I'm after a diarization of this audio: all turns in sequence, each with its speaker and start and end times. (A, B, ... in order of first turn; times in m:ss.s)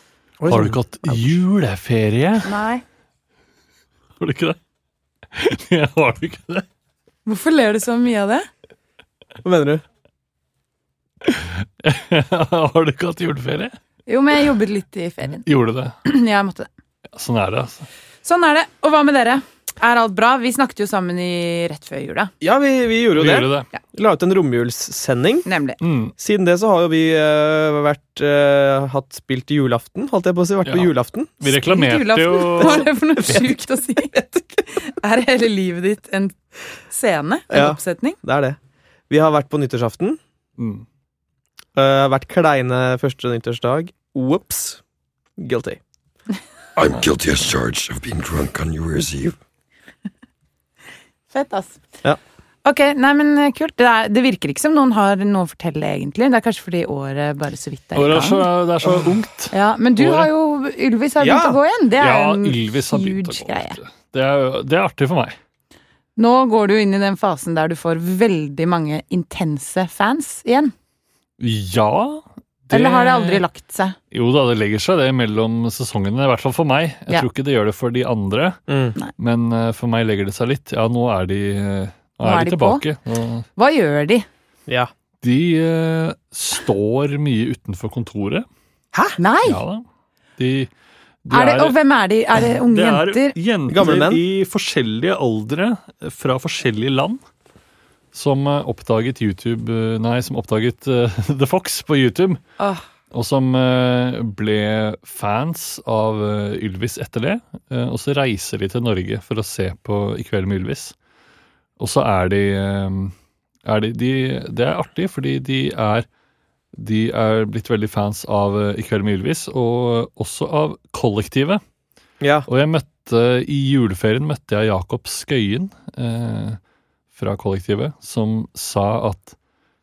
0:00.4-0:01.3 A
0:00.4-0:02.5 B
0:02.4-0:02.8 C
0:04.2-0:04.6 B
0:05.3-0:06.6 B
0:07.2-0:08.5 C
0:09.4-0:09.8 A
0:11.2-0:13.8 B
0:14.1-0:15.4 C
0:15.4-0:15.9 B
0:16.0-0:16.7 C
0:17.1-0:17.9 B
0:18.2-0:22.3 C
0:22.4-0:25.4 A
0:23.1-0:23.7 B
0:25.4-0:25.8 C
0:25.8-0:26.1 B
0:26.2-0:31.4 A
0:30.6-0:32.9 B
0:31.5-0:38.2 C
0:32.6-0:33.4 A
0:37.5-0:38.6 A
0:39.1-0:40.2 A
0:40.6-0:40.8 B
0:41.7-0:44.8 A
0:45.4-0:45.8 A
0:46.8-0:49.4 D
0:51.3-0:51.8 C
0:52.6-0:58.5 C
0:57.9-1:00.3 B
0:59.5-1:03.8 C
1:01.2-1:01.6 A
1:02.0-1:05.3 B
1:06.2-1:10.7 C
1:11.4-1:13.4 B
1:12.7-1:14.0 C
1:14.1-1:18.6 B
1:18.7-1:19.0 A
1:19.2-1:23.5 B
1:22.2-1:22.8 C
1:23.6-1:24.2 C
1:25.2-1:28.4 B
1:28.9-1:29.2 A
1:29.2-1:29.6 C
1:29.4-1:29.8 B
1:30.4-1:30.7 B
1:31.2-1:31.8 B
1:31.3-1:33.3 C
1:32.4-1:37.2 B
1:33.7-1:34.2 A
1:38.1-1:42.4 B
1:42.6-1:42.8 C
1:43.1-1:50.9 B
1:51.8-1:53.1 B
1:53.6-1:56.0 B
1:56.7-2:01.6 B
2:02.2-2:02.5 A
2:02.4-2:06.6 B
2:07.1-2:09.3 B